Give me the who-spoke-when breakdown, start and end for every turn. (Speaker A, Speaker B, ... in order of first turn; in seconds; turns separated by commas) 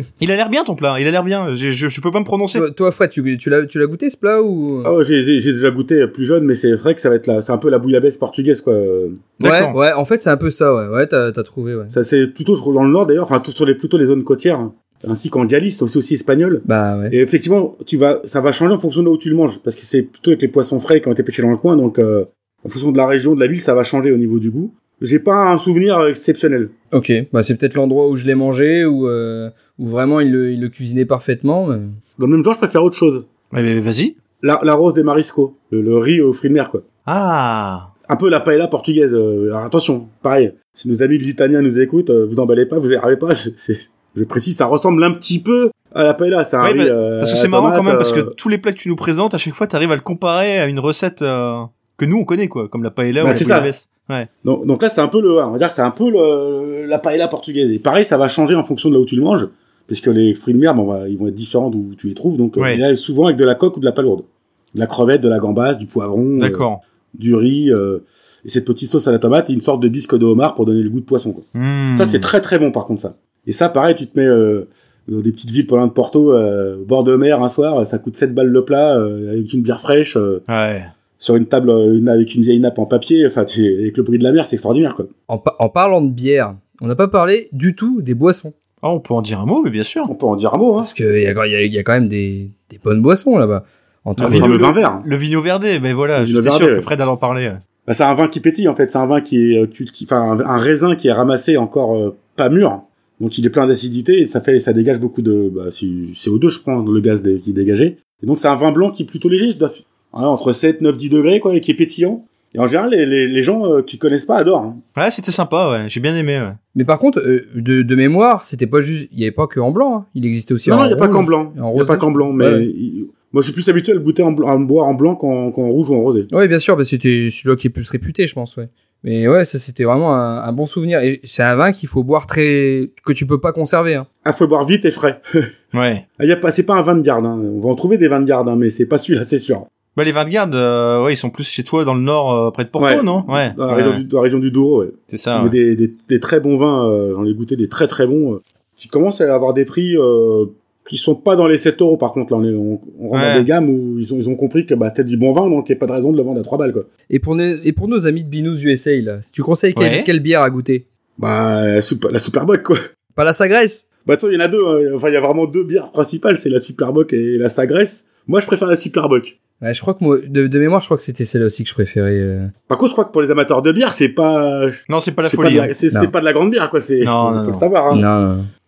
Speaker A: 0.2-2.7, Speaker B: 2.5-4.9, Speaker C: 4.8-9.3, Speaker A: 9.4-9.8, Speaker B: 9.4-11.9, Speaker C: 11.9-26.7, Speaker B: 16.7-17.1, Speaker B: 26.9-31.9, Speaker C: 32.2-33.3, Speaker A: 33.5-34.1, Speaker C: 34.4-36.9, Speaker A: 37.1-37.9, Speaker C: 38.1-48.3, Speaker A: 46.6-54.3, Speaker C: 53.2-53.7, Speaker C: 54.4-80.4, Speaker A: 62.6-62.8, Speaker A: 66.4-66.8, Speaker A: 71.5-72.3, Speaker A: 80.5-80.9, Speaker C: 81.2-85.1, Speaker B: 85.3-88.5, Speaker A: 88.8-90.1, Speaker C: 90.1-90.9, Speaker B: 90.8-94.5, Speaker A: 94.2-97.6, Speaker C: 94.2-95.1, Speaker C: 96.2-96.9, Speaker C: 97.9-114.8, Speaker A: 115.0-116.6, Speaker B: 116.8-122.7, Speaker C: 120.7-126.3, Speaker B: 126.3-134.1, Speaker C: 134.2-135.5, Speaker A: 135.7-136.0, Speaker C: 136.2-139.7, Speaker A: 140.0-144.0, Speaker C: 142.8-156.9, Speaker A: 145.1-145.6, Speaker A: 153.1-153.5, Speaker B: 157.1-160.8, Speaker A: 159.8-160.1, Speaker C: 161.2-162.8, Speaker B: 163.2-163.8, Speaker C: 164.1-169.3, Speaker B: 169.6-172.5, Speaker C: 172.7-178.1, Speaker A: 174.9-175.7, Speaker A: 177.0-177.7, Speaker B: 177.9-178.5